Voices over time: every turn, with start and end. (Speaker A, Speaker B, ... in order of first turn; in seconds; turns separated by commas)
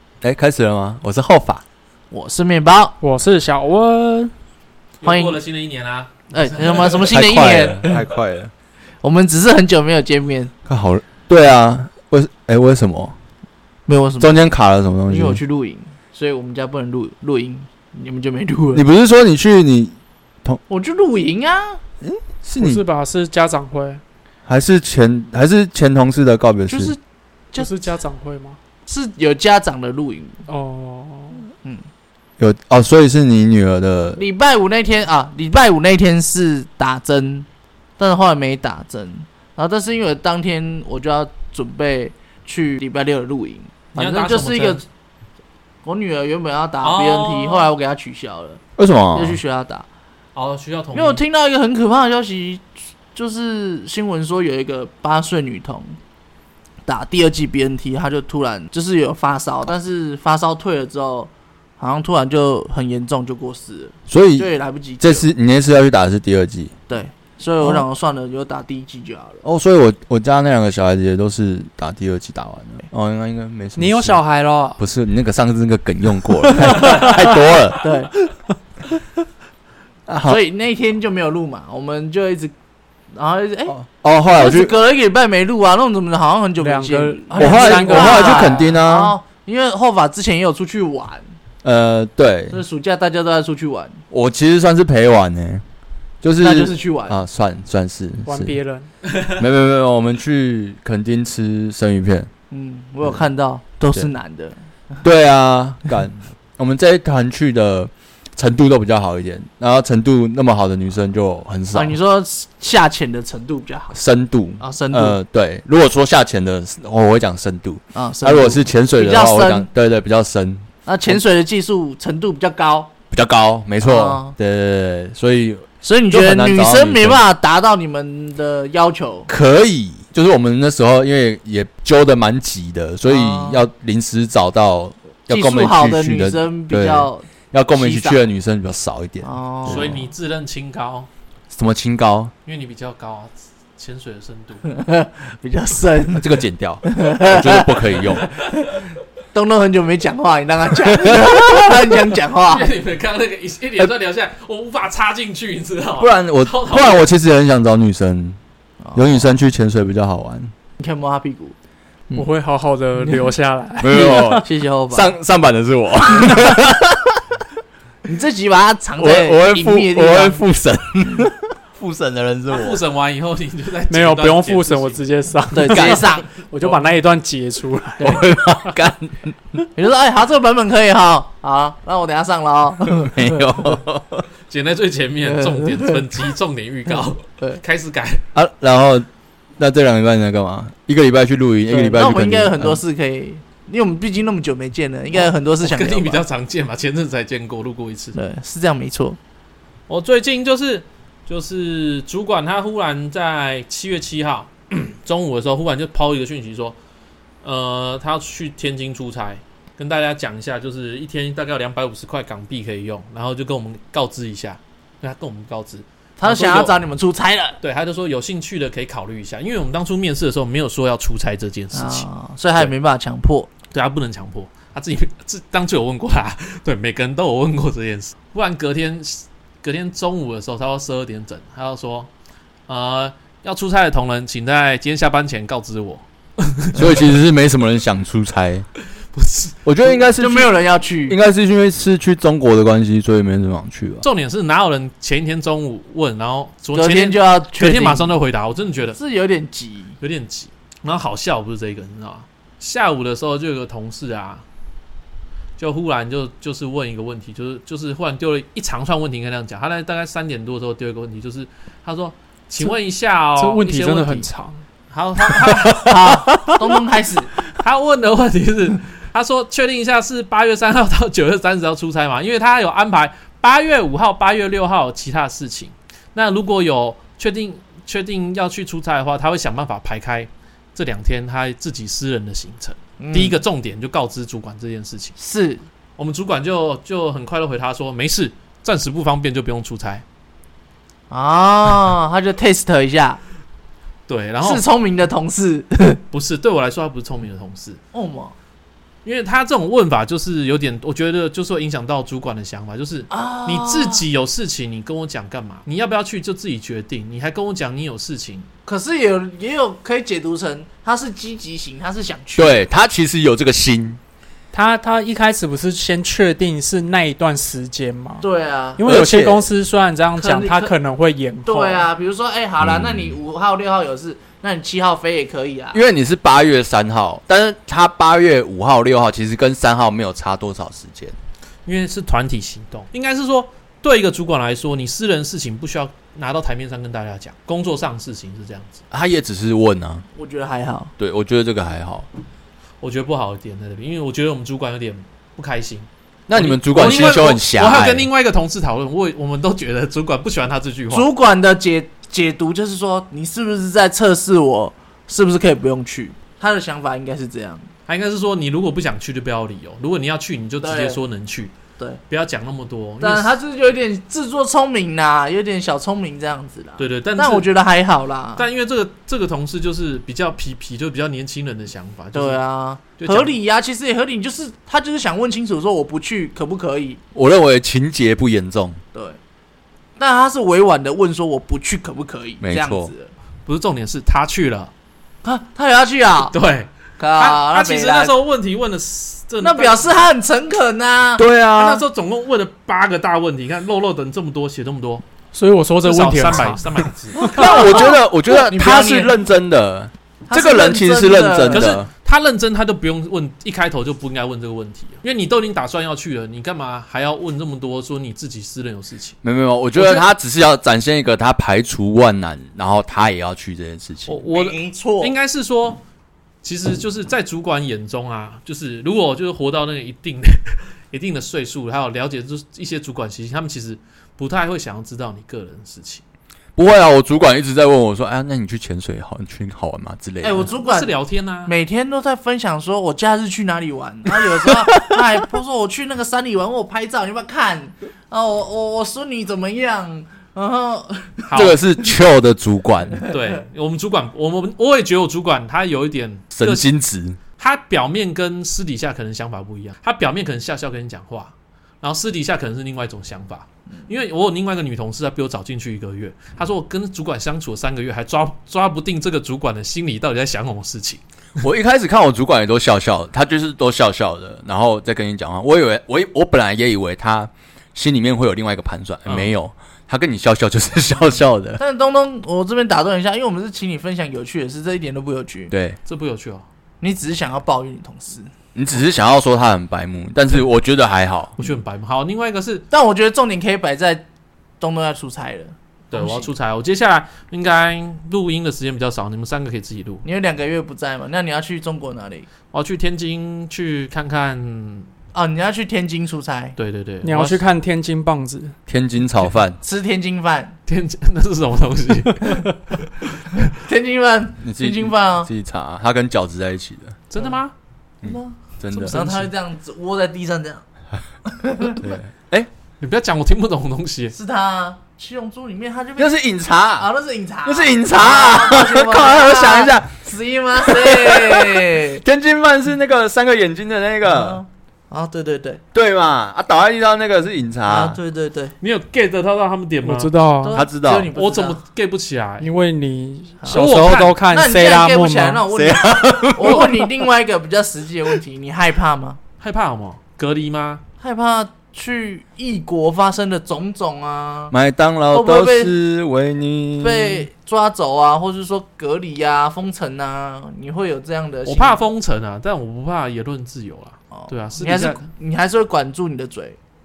Speaker A: 0.2-1.6, Speaker B: 2.1-3.0, Speaker C: 3.0-4.3, Speaker D: 5.0-7.0, Speaker B: 5.0-5.4, Speaker B: 6.3-8.0, Speaker A: 7.1-8.5, Speaker B: 9.0-10.5, Speaker A: 10.7-13.2, Speaker B: 13.9-14.4, Speaker A: 14.2-15.4, Speaker B: 15.1-18.8, Speaker A: 18.7-20.6, Speaker B: 20.7-21.8, Speaker A: 22.0-22.8, Speaker C: 22.6-24.0, Speaker A: 24.5-26.9, Speaker B: 26.7-27.0, Speaker C: 27.6-28.6, Speaker B: 28.9-30.4, Speaker C: 30.5-31.5, Speaker A: 32.4-34.2, Speaker B: 34.2-37.5, Speaker B: 38.0-44.9, Speaker D: 44.0-44.8, Speaker B: 45.8-48.6, Speaker D: 46.8-47.7, Speaker A: 48.8-49.4, Speaker B: 49.1-49.9, Speaker D: 50.4-51.2, Speaker B: 50.9-56.0, Speaker B: 56.9-65.3, Speaker A: 64.1-66.7, Speaker B: 66.9-69.5, Speaker A: 69.5-74.2, Speaker C: 73.8-74.8, Speaker A: 74.8-77.9, Speaker C: 76.6-77.2, Speaker B: 77.8-78.1, Speaker A: 80.1-80.4, Speaker B: 80.3-82.5, Speaker B: 83.2-83.8, Speaker A: 83.7-84.8, Speaker B: 84.3-91.3, Speaker C: 86.6-88.6, Speaker A: 87.3-89.2, Speaker A: 91.6-92.6, Speaker B: 92.5-94.0, Speaker A: 94.1-95.6, Speaker A: 96.2-98.6, Speaker B: 96.4-97.2, Speaker C: 98.3-98.9, Speaker A: 99.3-102.3, Speaker B: 102.5-105.0, Speaker A: 105.0-112.0, Speaker B: 111.7-114.0, Speaker A: 113.9-121.2, Speaker B: 114.6-115.2, Speaker B: 117.9-119.7, Speaker B: 120.9-122.9, Speaker A: 123.1-127.2, Speaker B: 123.8-124.4, Speaker B: 125.8-129.3, Speaker A: 129.3-139.9, Speaker B: 133.1-133.7, Speaker B: 135.3-138.2, Speaker B: 139.2-140.0, Speaker D: 139.7-141.1, Speaker A: 141.5-142.3, Speaker D: 142.4-144.7, Speaker B: 144.7-148.4, Speaker A: 146.2-148.3, Speaker B: 149.3-152.7, Speaker A: 151.0-151.7, Speaker D: 152.5-157.0, Speaker A: 156.0-158.4, Speaker B: 158.8-159.3, Speaker A: 158.9-160.5, Speaker B: 160.8-161.6, Speaker C: 162.2-164.4, Speaker A: 163.8-167.2, Speaker B: 163.9-165.1, Speaker B: 166.0-166.4, Speaker B: 168.1-170.4, Speaker A: 169.0-172.8, Speaker D: 172.5-175.0, Speaker C: 173.9-178.2, Speaker B: 175.5-176.4, Speaker A: 175.7-176.1, Speaker A: 178.0-179.6, Speaker B: 179.7-183.8, Speaker A: 183.0-184.2, Speaker D: 184.5-188.2, Speaker B: 185.2-186.1, Speaker B: 186.9-187.6, Speaker A: 188.3-189.1, Speaker A: 189.6-192.8, Speaker B: 191.7-196.2, Speaker D: 195.1-198.2, Speaker B: 198.1-199.2, Speaker D: 199.9-206.8, Speaker D: 207.4-216.8, Speaker B: 216.2-217.6, Speaker D: 217.6-222.7, Speaker B: 221.7-223.5, Speaker D: 223.7-232.1, Speaker D: 232.7-236.9, Speaker A: 236.8-238.7, Speaker D: 239.1-239.6, Speaker A: 239.7-244.1, Speaker B: 239.9-241.2, Speaker D: 244.0-249.0, Speaker B: 246.7-248.1, Speaker B: 248.9-250.0, Speaker D: 250.0-254.4, Speaker D: 255.6-264.3, Speaker C: 263.4-264.6, Speaker D: 264.9-266.0, Speaker B: 265.7-267.4, Speaker D: 267.6-285.2, Speaker B: 283.0-283.4, Speaker B: 285.2-285.6, Speaker D: 286.0-290.0, Speaker B: 291.1-293.2, Speaker D: 294.1-294.6, Speaker B: 294.4-296.0, Speaker D: 296.1-297.8, Speaker B: 297.9-298.4, Speaker D: 299.1-308.5, Speaker B: 303.1-304.1, Speaker B: 308.6-312.6, Speaker A: 312.4-314.0, Speaker C: 314.5-318.2, Speaker B: 318.2-318.9, Speaker C: 318.8-321.9, Speaker A: 318.8-319.5, Speaker B: 320.2-320.7, Speaker B: 321.4-325.8, Speaker A: 322.6-323.1, Speaker A: 325.7-331.2, Speaker D: 331.7-338.8, Speaker A: 338.9-340.0, Speaker B: 340.1-340.9, Speaker A: 341.0-342.1, Speaker D: 342.8-351.1, Speaker A: 346.3-348.1, Speaker B: 350.9-357.7, Speaker D: 357.9-361.6, Speaker B: 360.6-361.0, Speaker D: 362.1-363.4, Speaker B: 363.0-368.5, Speaker D: 366.8-367.5, Speaker D: 368.4-372.4, Speaker B: 372.1-377.0, Speaker D: 373.0-373.4, Speaker A: 377.1-378.8, Speaker B: 378.9-379.2, Speaker B: 380.0-383.1, Speaker A: 382.4-382.9, Speaker D: 383.5-384.7, Speaker B: 385.2-386.3, Speaker D: 386.2-390.0, Speaker B: 387.0-388.1, Speaker B: 389.4-391.3, Speaker A: 391.2-391.8, Speaker D: 391.6-395.0, Speaker C: 395.3-396.7, Speaker D: 395.8-397.9, Speaker B: 397.2-399.2, Speaker A: 397.2-401.9, Speaker B: 400.3-401.7, Speaker D: 401.5-409.2, Speaker A: 409.2-414.2, Speaker B: 409.8-410.1, Speaker D: 414.1-415.8, Speaker B: 414.3-415.1, Speaker D: 416.4-426.0, Speaker A: 426.6-430.5, Speaker B: 430.2-430.9, Speaker D: 430.6-431.5, Speaker B: 431.5-441.3, Speaker D: 441.3-441.6, Speaker A: 441.3-443.0, Speaker D: 443.1-446.7, Speaker A: 446.4-447.2, Speaker D: 447.4-461.0, Speaker A: 461.4-471.6, Speaker D: 469.1-469.3, Speaker B: 471.6-475.5, Speaker A: 475.5-475.8, Speaker D: 475.9-476.5, Speaker B: 476.8-478.3, Speaker A: 478.6-481.4, Speaker D: 481.4-482.7, Speaker B: 482.7-484.1, Speaker B: 484.6-486.3, Speaker D: 485.9-490.0, Speaker B: 490.0-492.3, Speaker D: 492.5-494.9, Speaker B: 495.1-496.6, Speaker D: 496.6-497.4, Speaker C: 497.0-498.6, Speaker A: 498.7-499.6, Speaker B: 499.6-500.6, Speaker D: 500.7-502.5, Speaker B: 503.5-505.3, Speaker A: 504.4-507.0, Speaker D: 507.1-507.5, Speaker A: 508.0-509.0, Speaker B: 508.0-510.6, Speaker D: 508.7-509.3, Speaker B: 511.2-511.9, Speaker A: 511.8-512.5, Speaker D: 512.8-514.1, Speaker B: 514.1-516.1, Speaker A: 516.0-516.9, Speaker B: 516.8-522.0, Speaker A: 517.5-520.0, Speaker A: 520.6-524.4, Speaker B: 524.0-525.6, Speaker A: 525.7-528.0, Speaker B: 527.7-528.5, Speaker D: 528.6-530.1, Speaker C: 529.8-530.6, Speaker B: 530.4-531.6, Speaker A: 530.5-531.1, Speaker D: 531.1-532.5, Speaker C: 532.4-535.4, Speaker B: 533.4-539.2, Speaker D: 533.5-534.2, Speaker A: 535.5-536.9, Speaker D: 539.4-540.8, Speaker B: 541.0-544.5, Speaker A: 544.5-547.3, Speaker B: 545.1-545.7, Speaker B: 546.8-551.8, Speaker D: 551.5-555.1, Speaker B: 554.1-556.6